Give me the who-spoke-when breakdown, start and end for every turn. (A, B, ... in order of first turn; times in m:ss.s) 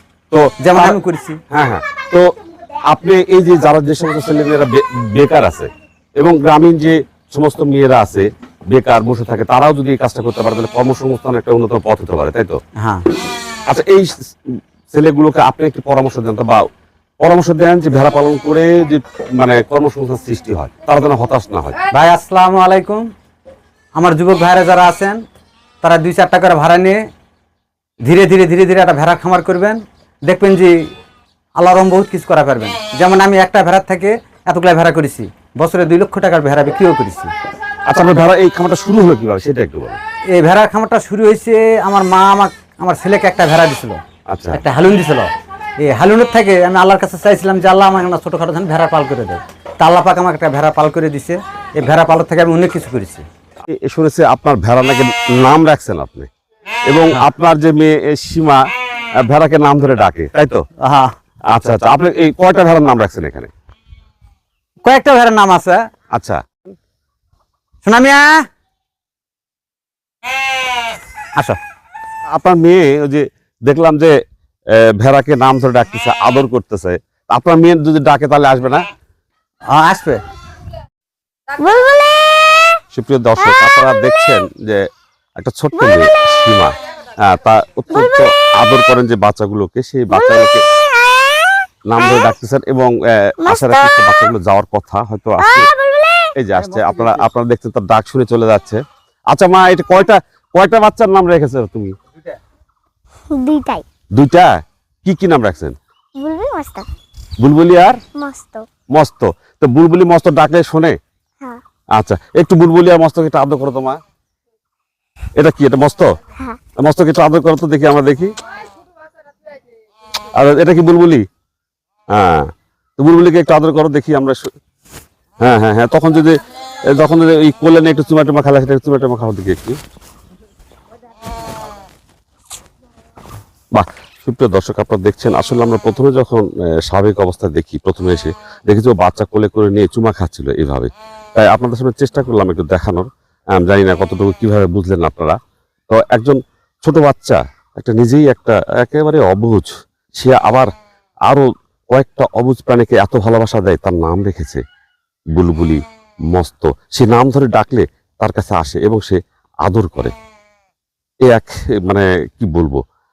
0:00.3-0:01.0 A
0:00.6-0:01.4 B
0:01.5-0:02.3 A
0:02.9-0:12.6 A
0:12.8-0:13.0 B
0:13.7-0:16.6 A
0:17.2-0:21.8 A
0:21.9-0:23.1 B
0:24.0-0:25.2 B
0:25.8-0:27.0 B
0:28.0-0:30.9 B
0:31.6-0:37.3 B
0:37.9-0:40.0 A
0:40.3-0:44.0 B
0:44.3-0:44.6 A
0:44.5-0:53.3 B
0:53.7-0:56.3 A
0:56.9-0:58.6 A
0:59.2-1:00.6 A
1:00.8-1:01.2 B
1:01.5-1:03.5 A
1:04.8-1:05.8 B
1:06.1-1:06.5 A
1:07.8-1:08.4 B
1:12.3-1:14.2 A
1:14.7-1:18.8 A
1:19.7-1:20.2 B
1:21.6-1:22.6 C
1:22.9-1:24.9 A
1:25.4-1:30.6 A
1:31.9-1:35.7 A
1:33.5-1:33.9 C
1:35.5-1:36.3 C
1:36.3-1:41.9 A
1:43.3-1:43.8 C
1:44.1-1:45.8 A
1:46.2-1:46.9 C
1:47.4-1:48.0 A
1:48.1-1:48.7 C
1:48.9-1:51.0 A
1:52.0-1:54.0 A
1:55.4-1:56.1 A
1:56.8-1:58.3 A
2:00.4-2:01.2 A
2:02.1-2:04.5 A
2:05.4-2:06.4 A
2:06.9-2:09.8 A
2:13.7-2:25.4 A
2:25.9-2:30.7 A
2:31.3-2:34.6 A
2:35.3-2:40.1 A
2:41.2-2:42.8 A